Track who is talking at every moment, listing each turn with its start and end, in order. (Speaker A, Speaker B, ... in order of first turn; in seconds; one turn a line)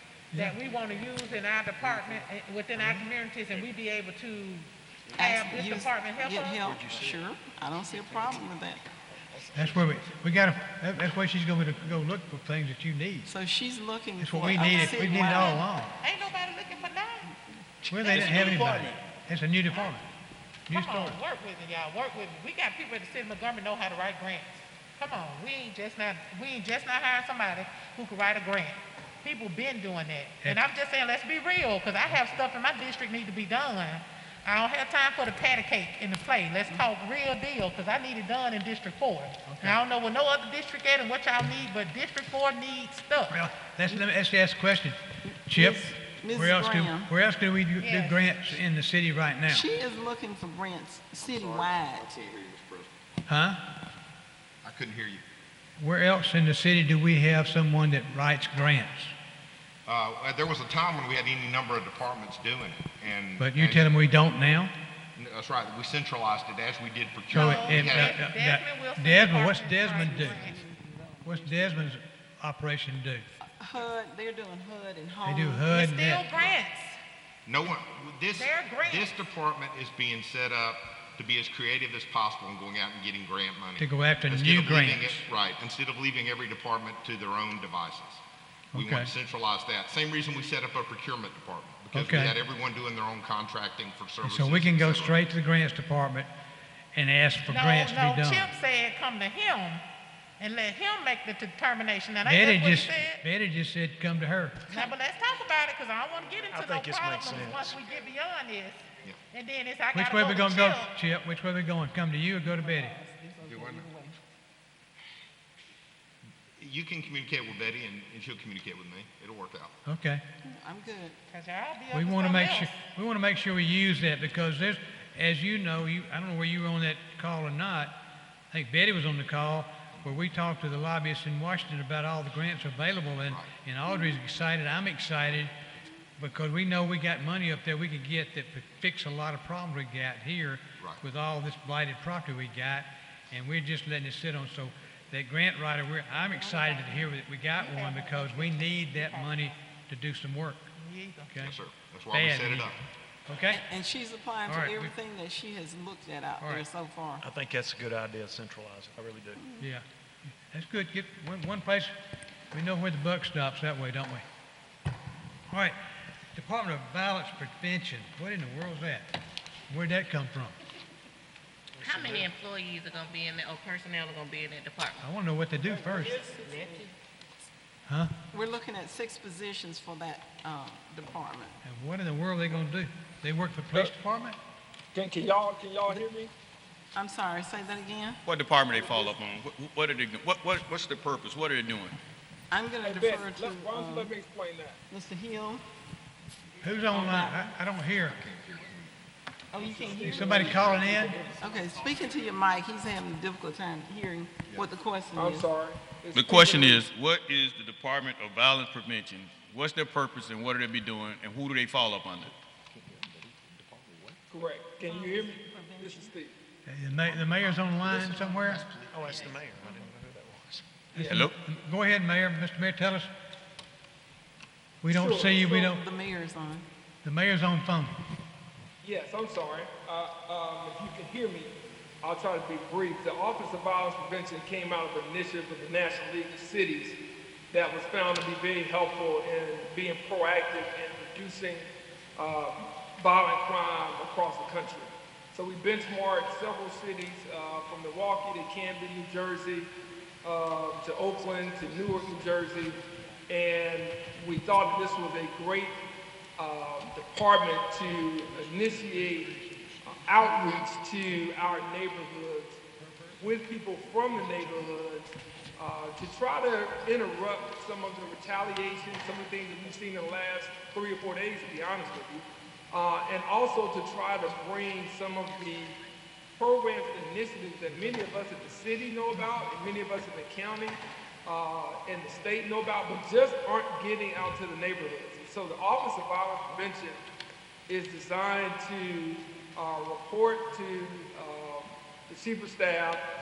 Speaker A: 0.3-6.6
Speaker B: 2.8-3.1
Speaker C: 5.1-8.8
Speaker B: 9.5-13.3
Speaker C: 13.3-15.6
Speaker B: 14.2-15.9
Speaker A: 14.5-17.3
Speaker C: 17.8-18.3
Speaker B: 17.9-20.0
Speaker A: 18.1-18.6
Speaker D: 18.1-19.0
Speaker B: 20.7-21.2
Speaker A: 20.7-43.4
Speaker B: 39.5-39.8
Speaker B: 43.3-49.7
Speaker C: 45.2-47.1
Speaker A: 47.8-48.6
Speaker C: 49.5-52.1
Speaker E: 51.2-52.9
Speaker B: 53.3-53.6
Speaker E: 54.6-55.2
Speaker B: 55.8-59.1
Speaker E: 59.9-63.9
Speaker B: 63.4-64.7
Speaker E: 65.2-68.2
Speaker B: 67.3-70.5
Speaker A: 67.3-70.6
Speaker C: 70.0-71.8
Speaker B: 71.2-73.3
Speaker C: 73.5-75.7
Speaker B: 75.2-76.2
Speaker A: 75.7-77.0
Speaker E: 76.3-76.6
Speaker E: 77.5-88.2
Speaker A: 78.3-79.2
Speaker B: 83.8-85.2
Speaker B: 88.7-89.1
Speaker E: 88.7-95.2
Speaker B: 91.9-92.3
Speaker B: 94.2-96.3
Speaker B: 97.0-98.5
Speaker A: 97.5-99.8
Speaker A: 100.4-103.2
Speaker B: 102.2-104.7
Speaker A: 104.7-110.9
Speaker F: 106.5-107.8
Speaker B: 109.9-113.0
Speaker C: 112.4-114.2
Speaker E: 113.4-113.9
Speaker E: 116.6-119.7
Speaker B: 119.9-120.2
Speaker C: 120.4-121.2
Speaker A: 121.3-122.8
Speaker B: 121.9-128.0
Speaker B: 128.5-135.5
Speaker B: 136.2-150.7
Speaker A: 146.3-149.6
Speaker A: 150.8-151.3
Speaker B: 151.3-151.6
Speaker E: 151.4-152.8
Speaker B: 152.1-152.8
Speaker B: 153.3-153.6
Speaker C: 153.5-157.2
Speaker B: 154.5-154.9
Speaker B: 156.4-156.7
Speaker F: 157.2-159.4
Speaker C: 159.4-159.7
Speaker B: 159.6-161.9
Speaker B: 162.5-164.2
Speaker B: 165.5-165.8
Speaker B: 166.3-169.1
Speaker B: 169.7-170.6
Speaker G: 171.8-175.0
Speaker B: 175.0-176.1
Speaker C: 175.7-176.9
Speaker G: 176.4-176.8
Speaker B: 177.9-178.1
Speaker C: 178.3-181.6
Speaker B: 181.6-184.4
Speaker H: 184.9-186.3
Speaker C: 186.9-188.2
Speaker D: 188.2-192.0
Speaker H: 188.7-189.2
Speaker C: 192.5-194.1
Speaker H: 192.8-194.8
Speaker C: 194.9-195.7
Speaker B: 196.6-198.2
Speaker C: 196.9-197.6
Speaker E: 198.1-198.9
Speaker C: 199.5-200.5
Speaker H: 199.7-201.4
Speaker E: 199.8-201.0
Speaker B: 200.1-201.2
Speaker C: 201.4-205.5
Speaker H: 205.1-206.9
Speaker D: 206.1-212.3
Speaker E: 213.3-214.2
Speaker H: 214.3-216.3
Speaker C: 214.8-216.1
Speaker B: 216.7-218.7
Speaker E: 217.9-219.3
Speaker F: 218.9-220.7
Speaker B: 220.9-223.1
Speaker H: 221.0-221.3
Speaker D: 221.1-221.3
Speaker B: 224.8-225.8
Speaker C: 224.9-226.7
Speaker H: 225.0-225.8
Speaker B: 227.0-227.9
Speaker H: 228.8-237.0
Speaker H: 237.5-249.7
Speaker H: 250.2-255.8
Speaker H: 256.4-259.3
Speaker H: 259.8-262.6
Speaker H: 263.2-275.8
Speaker H: 276.4-287.0
Speaker H: 287.7-293.0